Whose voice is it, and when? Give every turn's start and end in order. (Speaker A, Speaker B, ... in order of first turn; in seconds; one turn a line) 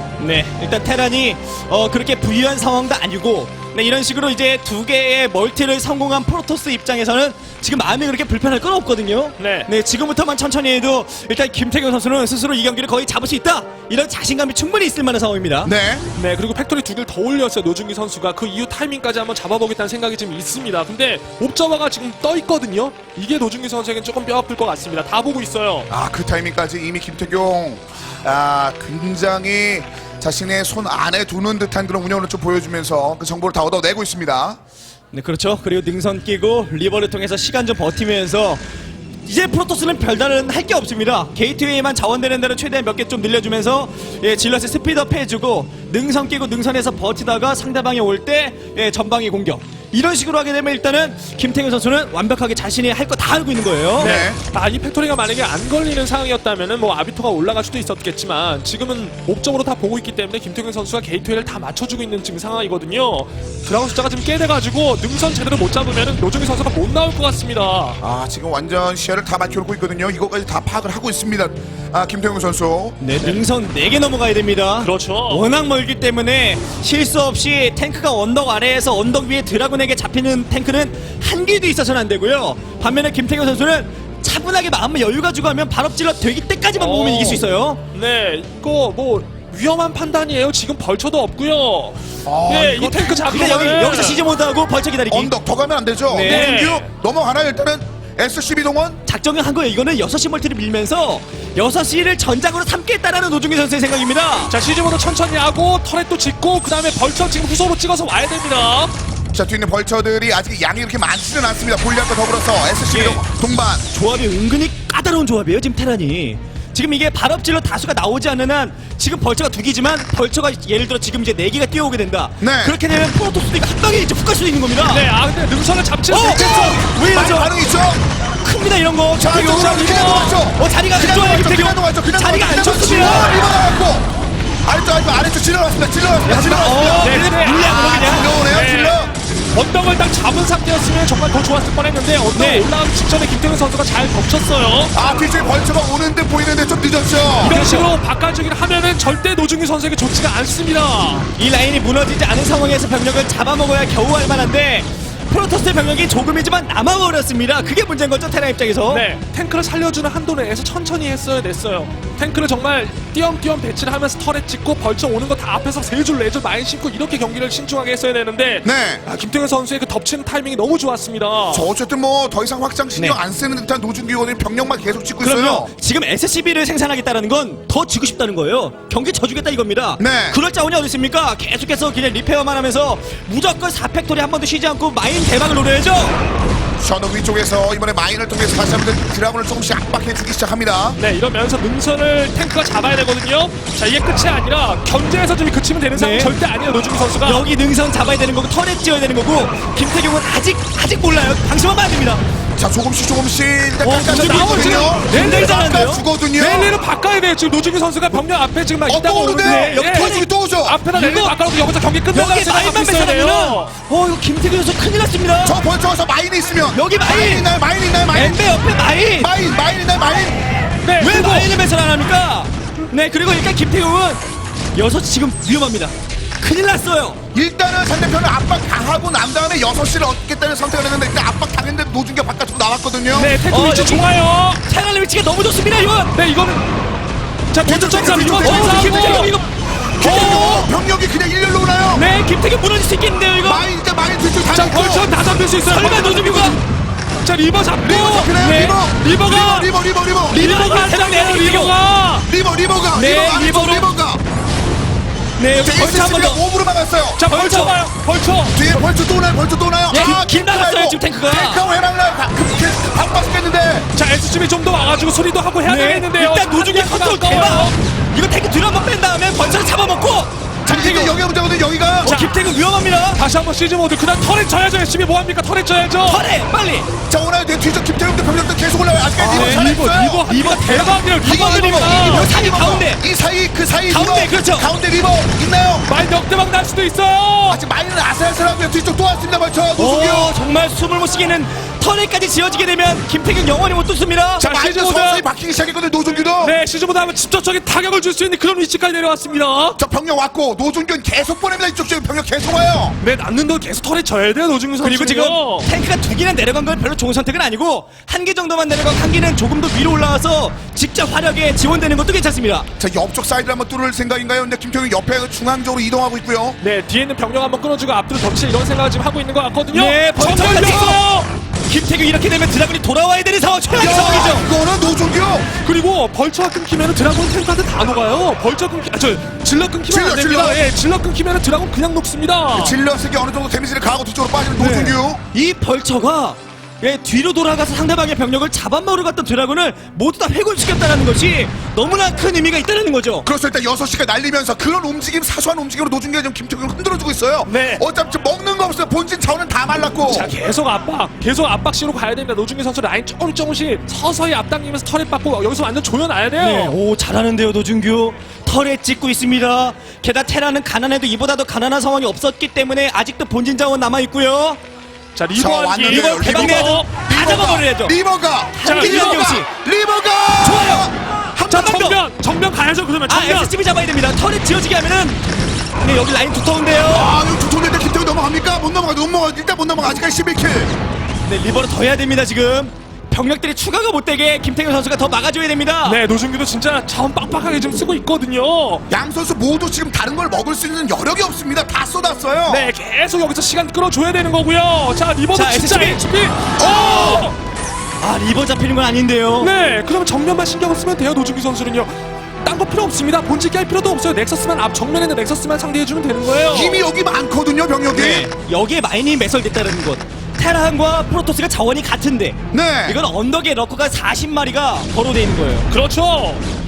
Speaker A: 0.2-15.7
Speaker B: 9.4-9.7
Speaker C: 15.6-16.0
Speaker B: 16.2-25.9
Speaker C: 25.9-34.6
Speaker A: 35.1-38.6
Speaker A: 39.3-54.2
Speaker C: 54.0-54.4
Speaker B: 54.0-68.0
Speaker C: 68.0-73.0
Speaker A: 73.0-87.8
Speaker B: 74.8-75.5
Speaker B: 86.8-94.2
Speaker C: 92.3-93.3
Speaker A: 93.1-95.3
Speaker C: 95.1-99.0
Speaker A: 96.1-96.5
Speaker B: 96.2-96.9
Speaker A: 99.1-104.5
Speaker B: 104.5-108.9
Speaker C: 109.3-113.9
Speaker A: 112.9-113.2
Speaker A: 113.9-125.1
Speaker C: 122.4-122.8
Speaker B: 124.9-126.8
Speaker A: 126.1-127.5
Speaker C: 126.2-128.0
Speaker A: 128.4-133.4
Speaker C: 129.2-134.1
Speaker B: 129.7-130.4
Speaker C: 134.6-139.1
Speaker A: 136.3-138.3
Speaker B: 137.0-139.0
Speaker B: 139.5-144.9
Speaker A: 142.3-142.7
Speaker C: 144.9-147.6
Speaker A: 147.4-147.9
Speaker B: 147.4-151.3
Speaker A: 151.4-159.0
Speaker B: 158.9-171.7
Speaker C: 168.6-169.0
Speaker C: 171.5-175.7
Speaker A: 175.2-186.2
Speaker C: 180.0-180.4
Speaker C: 186.8-191.0
Speaker B: 191.0-197.4
Speaker A: 195.9-196.4
Speaker A: 197.2-202.2
Speaker C: 202.6-206.7
Speaker A: 203.8-205.9
Speaker B: 203.9-213.7
Speaker C: 208.9-210.8
Speaker A: 209.4-210.2
Speaker A: 210.9-211.4
Speaker A: 212.1-215.6
Speaker C: 215.4-218.4
Speaker A: 216.7-217.5
Speaker A: 218.1-219.3
Speaker C: 219.2-220.4
Speaker B: 220.8-221.5
Speaker A: 221.0-224.2
Speaker A: 224.8-227.2
Speaker C: 227.3-233.3
Speaker B: 233.1-234.6
Speaker A: 233.4-234.1
Speaker A: 234.7-236.1
Speaker B: 236.2-236.7
Speaker B: 237.5-239.3
Speaker C: 237.7-239.3
Speaker A: 238.4-239.5
Speaker C: 240.0-242.1
Speaker B: 240.0-240.7
Speaker A: 241.9-243.7
Speaker C: 243.4-245.1
Speaker B: 244.5-246.6
Speaker A: 245.7-246.6
Speaker B: 247.2-249.7
Speaker C: 247.8-250.4
Speaker A: 250.3-251.8
Speaker B: 250.3-252.3
Speaker C: 252.3-254.2
Speaker A: 252.9-253.9
Speaker A: 255.4-256.4
Speaker C: 255.6-257.2
Speaker B: 257.2-258.6
Speaker A: 257.3-257.8
Speaker C: 258.5-263.9
Speaker A: 259.9-261.6
Speaker B: 259.9-260.7
Speaker B: 264.0-267.7
Speaker A: 265.6-271.1
Speaker C: 270.7-272.2
Speaker B: 272.1-272.4
Speaker A: 272.1-273.2
Speaker B: 273.2-276.2
Speaker A: 276.1-276.9
Speaker C: 277.1-285.9
Speaker A: 279.2-279.7
Speaker B: 279.3-282.3
Speaker A: 280.3-283.0
Speaker A: 283.9-284.7
Speaker B: 285.9-287.6
Speaker C: 287.5-290.3
Speaker A: 289.8-294.5
Speaker C: 294.4-296.6
Speaker B: 294.4-295.3
Speaker B: 296.4-299.8
Speaker C: 299.8-303.0
Speaker B: 303.0-305.7
Speaker A: 304.8-312.7
Speaker C: 312.8-316.6
Speaker B: 316.6-321.3
Speaker A: 319.7-320.9
Speaker C: 320.4-321.0
Speaker A: 321.7-324.5
Speaker C: 323.8-325.5
Speaker B: 323.8-324.4
Speaker B: 325.6-332.8
Speaker C: 329.9-330.6
Speaker C: 332.5-335.2
Speaker A: 334.6-343.3
Speaker C: 343.2-350.4
Speaker B: 347.5-347.8
Speaker B: 350.1-356.8
Speaker A: 356.4-364.6
Speaker B: 365.2-366.9
Speaker C: 365.4-371.0
Speaker A: 365.9-367.9
Speaker A: 368.6-369.5
Speaker B: 368.6-369.4
Speaker A: 370.4-371.9
Speaker B: 371.4-373.5
Speaker A: 373.1-375.2
Speaker A: 375.8-377.1
Speaker C: 376.9-380.7
Speaker A: 381.3-386.0
Speaker B: 385.9-388.8
Speaker C: 388.9-392.7
Speaker B: 392.5-397.4
Speaker A: 395.3-396.0
Speaker C: 396.6-397.3
Speaker A: 398.0-399.5
Speaker B: 399.4-401.9
Speaker B: 402.4-406.8
Speaker C: 406.5-408.3
Speaker A: 407.9-415.7
Speaker C: 412.5-413.0
Speaker B: 415.7-416.4